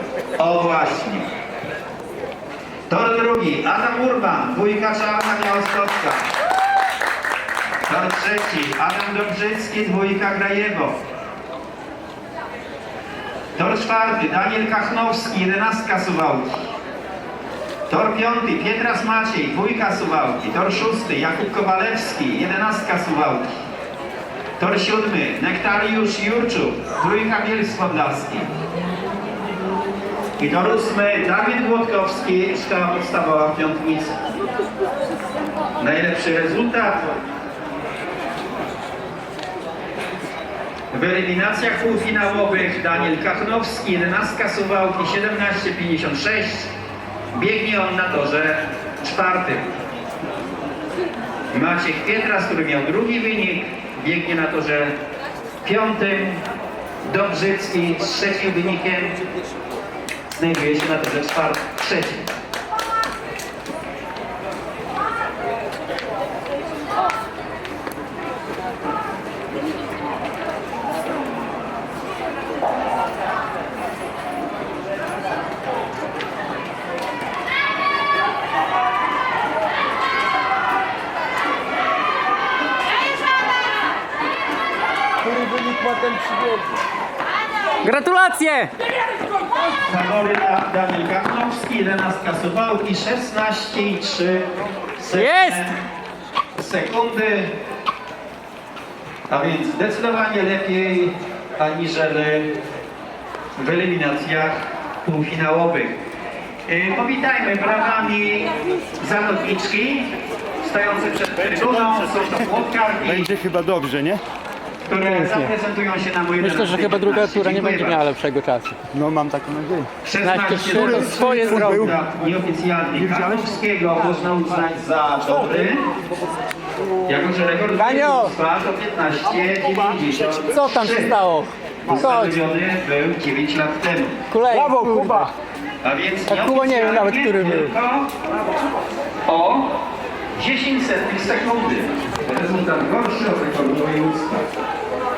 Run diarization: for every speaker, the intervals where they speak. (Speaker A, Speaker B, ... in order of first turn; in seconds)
Speaker A: 0.4-1.3, 2.9-6.2, 7.9-11.0, 13.6-16.7, 17.9-23.6, 24.6-28.5, 30.4-34.2, 35.8-37.1, 40.9-46.7, 47.3-49.7, 51.5-54.9, 55.6-56.4, 57.0-59.1, 60.3-62.3, 89.8-95.8, 96.5-97.5, 99.3-102.5, 103.6-106.0, 106.7-110.1, 110.6-113.4, 114.9-118.1, 120.0-125.8, 127.0-131.2, 131.9-134.1, 135.8-138.1, 139.3-139.7, 140.4-144.5
Speaker B: 85.4-86.5, 113.2-114.2, 118.9-119.9, 134.5-135.3
Speaker C: 87.8-88.7, 95.1-95.7, 115.1-115.5, 116.4-118.8, 120.2-121.9, 127.8-128.3, 130.5-132.4, 134.3-135.3, 136.3-137.7